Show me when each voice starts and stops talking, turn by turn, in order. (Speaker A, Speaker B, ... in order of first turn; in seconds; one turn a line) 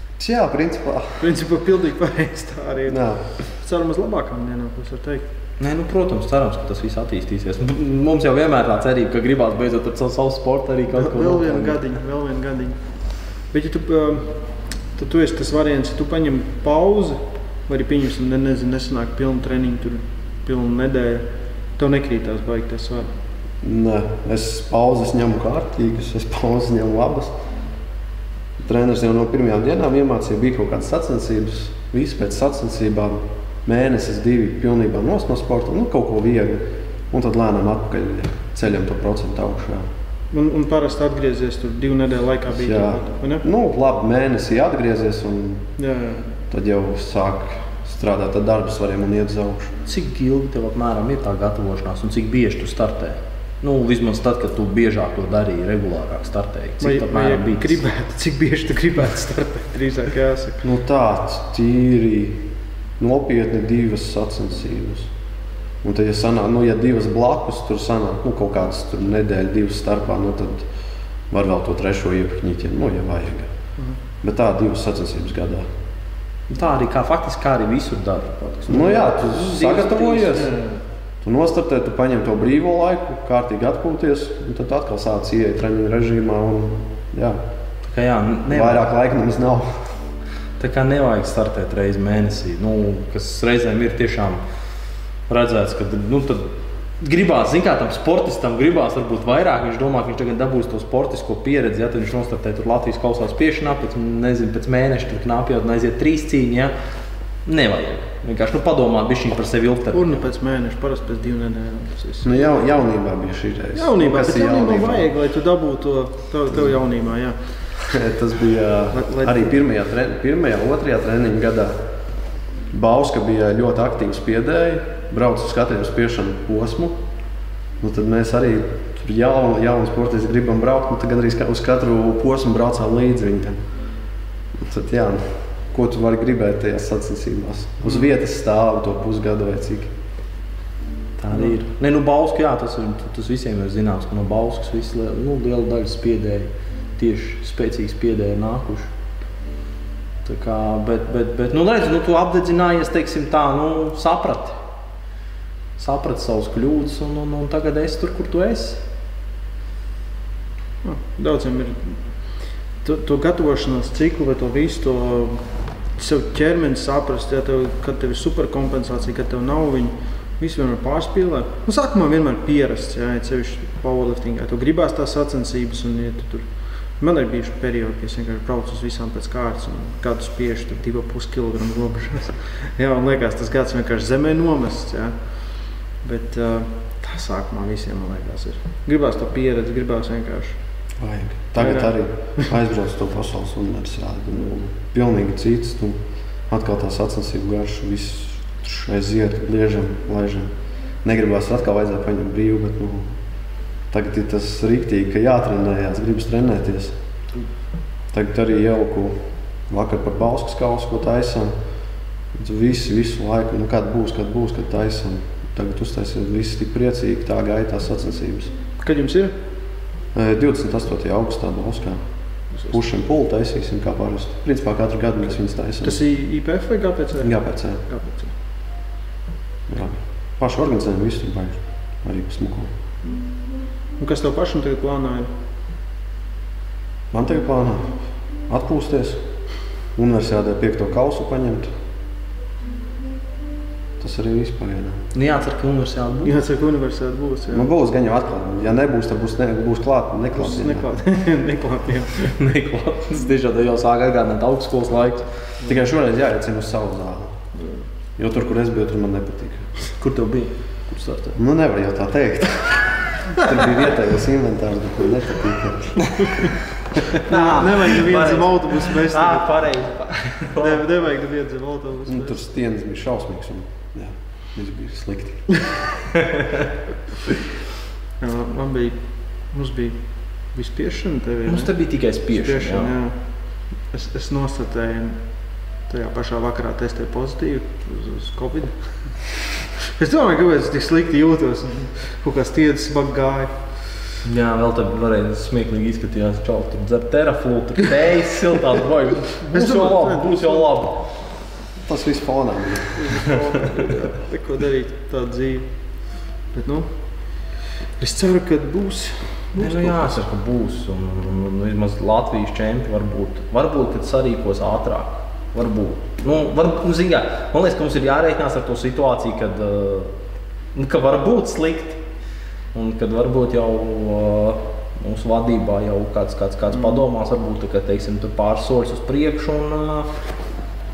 Speaker A: 0.2-1.2
Speaker B: 1.2-5.2
Speaker A: 2.9-3.2
Speaker C: 5.6-11.8
Speaker B: 10.9-21.2
Speaker B: 21.8-23.1
Speaker A: 23.6-27.3
Speaker A: 28.6-39.9
Speaker B: 40.3-43.5
Speaker A: 42.5-45.7
Speaker B: 45.8-46.3
Speaker A: 46.5-49.7
Speaker C: 49.9-57.8
Speaker B: 56.8-60.6
Speaker A: 60.6-62.4
Speaker A: 63.0-65.1
Speaker A: 65.8-70.7
Speaker A: 71.3-73.5
Speaker A: 74.2-75.7
Speaker C: 76.5-80.5
Speaker A: 78.7-80.6
Speaker B: 80.4-80.8
Speaker A: 81.2-87.4
Speaker C: 87.9-88.9
Speaker A: 88.5-89.9
Speaker C: 90.6-94.4
Speaker C: 95.3-96.5
Speaker C: 97.0-106.7
Speaker C: 107.5-110.2
Speaker B: 109.9-112.5
Speaker A: 112.2-115.1
Speaker B: 113.8-117.5
Speaker A: 117.9-121.8
Speaker B: 118.9-119.5
Speaker A: 122.7-127.0
Speaker A: 127.8-133.6
Speaker A: 134.6-139.9
Speaker B: 137.8-138.1
Speaker C: 141.2-148.9
Speaker C: 150.2-154.6
Speaker C: 155.8-158.8
Speaker B: 160.8-190.6
Speaker A: 191.0-200.5
Speaker B: 191.6-192.5
Speaker A: 201.0-203.2
Speaker A: 203.9-206.9
Speaker A: 208.1-211.5
Speaker A: 212.3-218.5
Speaker B: 218.8-219.3
Speaker A: 220.1-226.0
Speaker B: 222.5-222.8
Speaker B: 225.8-228.3
Speaker A: 227.2-227.8
Speaker A: 229.7-232.7
Speaker B: 234.0-235.3
Speaker A: 237.1-238.0
Speaker A: 238.5-239.2
Speaker A: 239.9-241.7
Speaker A: 244.0-245.0
Speaker C: 245.1-246.3
Speaker B: 246.2-247.7
Speaker A: 247.5-251.0
Speaker B: 250.3-252.3
Speaker C: 252.3-255.3
Speaker A: 255.6-257.4
Speaker B: 257.6-257.9
Speaker A: 258.2-259.7
Speaker C: 260.0-261.4
Speaker A: 261.4-266.5
Speaker C: 267.2-270.8
Speaker B: 267.2-269.5
Speaker B: 270.6-272.4
Speaker A: 272.1-275.8
Speaker B: 278.2-293.8
Speaker C: 281.5-282.9
Speaker C: 294.2-301.1
Speaker B: 299.4-300.7
Speaker A: 301.8-303.1
Speaker B: 302.9-310.2
Speaker C: 309.6-320.1
Speaker C: 320.7-322.0
Speaker C: 322.7-330.1
Speaker B: 326.7-327.1